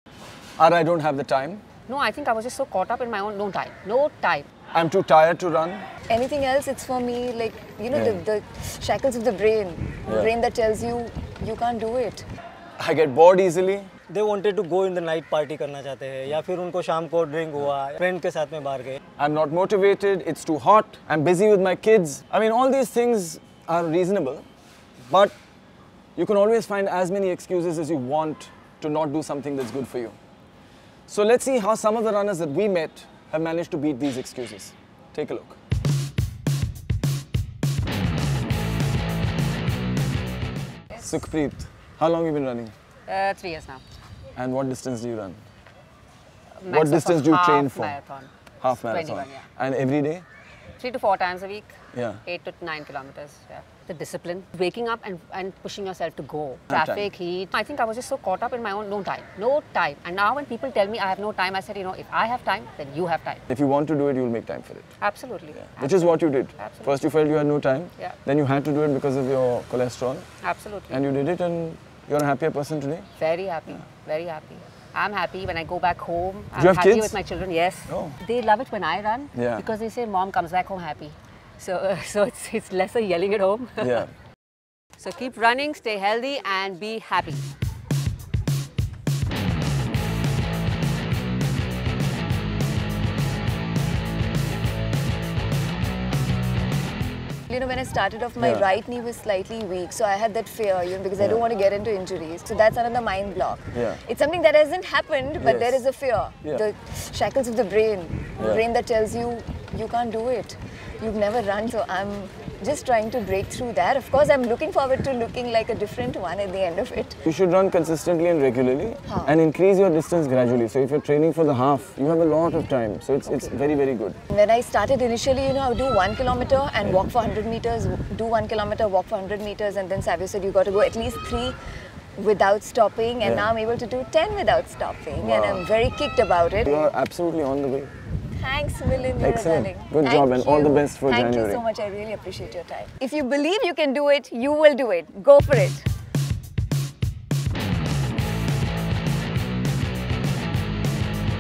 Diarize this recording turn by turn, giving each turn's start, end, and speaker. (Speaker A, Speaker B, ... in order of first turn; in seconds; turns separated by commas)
Speaker A: 0.6-1.6, Speaker B: 1.9-4.5, Speaker A: 4.7-5.9, Speaker C: 6.1-12.2, Speaker A: 7.9-8.2, Speaker A: 12.8-13.9, Speaker D: 14.1-19.0, Speaker A: 19.2-24.4, Speaker A: 25.1-25.4, Speaker A: 26.2-30.2, Speaker A: 31.1-35.6, Speaker B: 40.9-41.2, Speaker A: 41.0-42.7, Speaker B: 43.1-43.8, Speaker A: 44.4-45.4, Speaker B: 46.6-49.5, Speaker A: 46.7-48.0, Speaker A: 48.6-50.2, Speaker B: 50.8-51.7, Speaker A: 51.9-52.2, Speaker B: 52.2-63.4, Speaker A: 56.7-57.1, Speaker A: 63.5-64.9, Speaker B: 65.0-67.0, Speaker A: 65.7-70.3, Speaker B: 70.4-71.0, Speaker A: 70.9-73.1, Speaker B: 73.2-84.1, Speaker A: 76.6-77.2, Speaker A: 77.9-78.2, Speaker A: 79.3-79.7, Speaker A: 83.8-84.1, Speaker B: 85.0-87.5, Speaker C: 97.5-117.2, Speaker A: 98.4-98.7, Speaker A: 103.7-104.0, Speaker A: 105.4-105.8, Speaker A: 108.4-108.6, Speaker A: 117.3-124.2, Speaker C: 119.1-119.3, Speaker C: 123.2-123.5, Speaker C: 124.3-131.6, Speaker C: 132.2-136.9, Speaker A: 133.2-133.5, Speaker A: 135.2-135.7, Speaker A: 136.6-137.9, Speaker C: 138.4-145.8, Speaker A: 139.2-141.6